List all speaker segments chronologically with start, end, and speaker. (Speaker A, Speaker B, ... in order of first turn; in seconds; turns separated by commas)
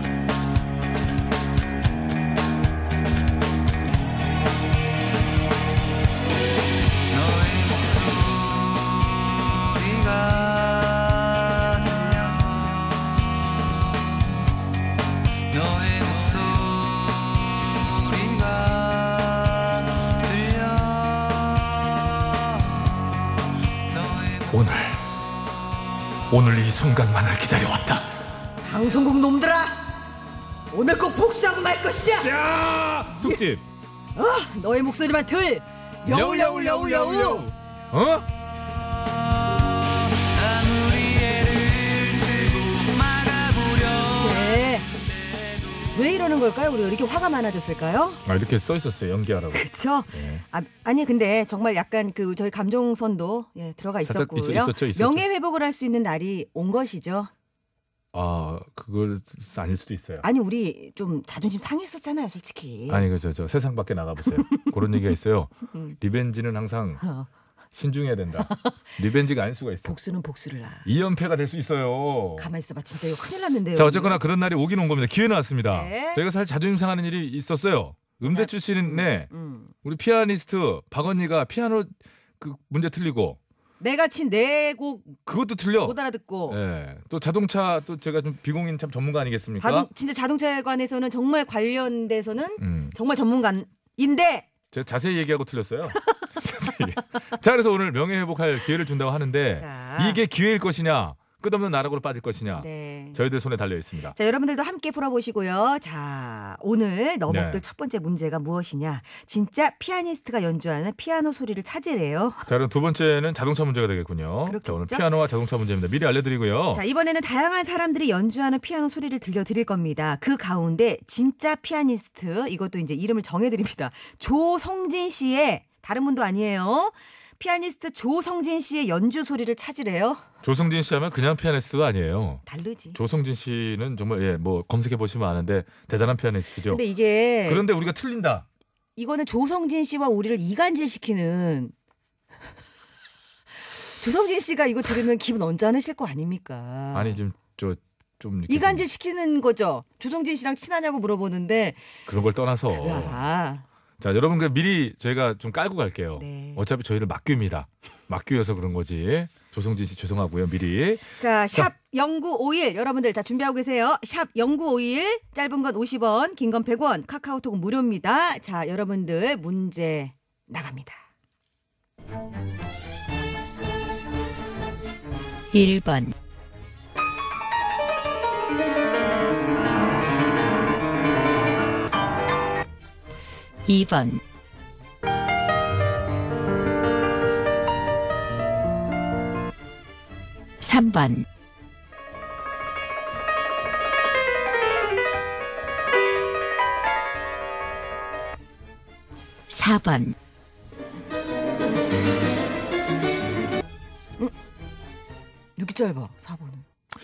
Speaker A: 7.1-14.2, Speaker A: 15.5-22.9, Speaker A: 23.8-24.7, Speaker B: 24.5-25.0, Speaker B: 26.3-28.2, Speaker C: 28.6-30.1, Speaker C: 30.7-32.4, Speaker B: 32.2-33.6, Speaker C: 33.1-33.4, Speaker C: 34.1-37.5, Speaker B: 36.0-38.3, Speaker A: 39.9-45.9, Speaker C: 44.1-44.9, Speaker C: 45.9-48.2, Speaker B: 48.2-50.4, Speaker C: 49.5-57.3, Speaker B: 54.0-55.3, Speaker B: 58.1-60.2, Speaker C: 60.2-63.0, Speaker B: 62.9-67.0, Speaker C: 64.5-65.1, Speaker C: 67.0-67.3, Speaker B: 67.8-70.0, Speaker C: 68.4-68.8, Speaker C: 69.8-70.9, Speaker B: 70.8-72.5, Speaker C: 72.4-74.2, Speaker B: 73.8-79.3, Speaker C: 75.7-76.2, Speaker C: 78.3-79.7, Speaker B: 79.8-83.4, Speaker C: 83.8-85.2, Speaker B: 85.3-86.0, Speaker C: 85.8-86.6, Speaker B: 86.5-89.9, Speaker C: 89.6-94.5, Speaker B: 92.6-93.0, Speaker B: 94.7-104.2, Speaker C: 99.6-100.2, Speaker C: 102.6-103.2, Speaker C: 104.1-112.5, Speaker B: 107.3-107.6, Speaker B: 112.5-116.8, Speaker C: 114.5-115.1, Speaker C: 116.7-130.2, Speaker B: 130.4-132.4, Speaker C: 132.5-133.0, Speaker B: 132.9-136.8, Speaker C: 136.7-137.7, Speaker B: 137.4-138.5, Speaker C: 139.0-141.7, Speaker C: 143.8-147.2, Speaker B: 146.9-148.8, Speaker C: 148.5-151.9, Speaker B: 152.1-153.2, Speaker C: 152.7-153.7, Speaker B: 154.0-161.7, Speaker C: 156.2-156.6, Speaker C: 161.2-171.0, Speaker D: 175.5-176.1, Speaker D: 183.7-184.2, Speaker D: 190.6-191.2, Speaker D: 199.5-200.2, Speaker C: 205.6-206.7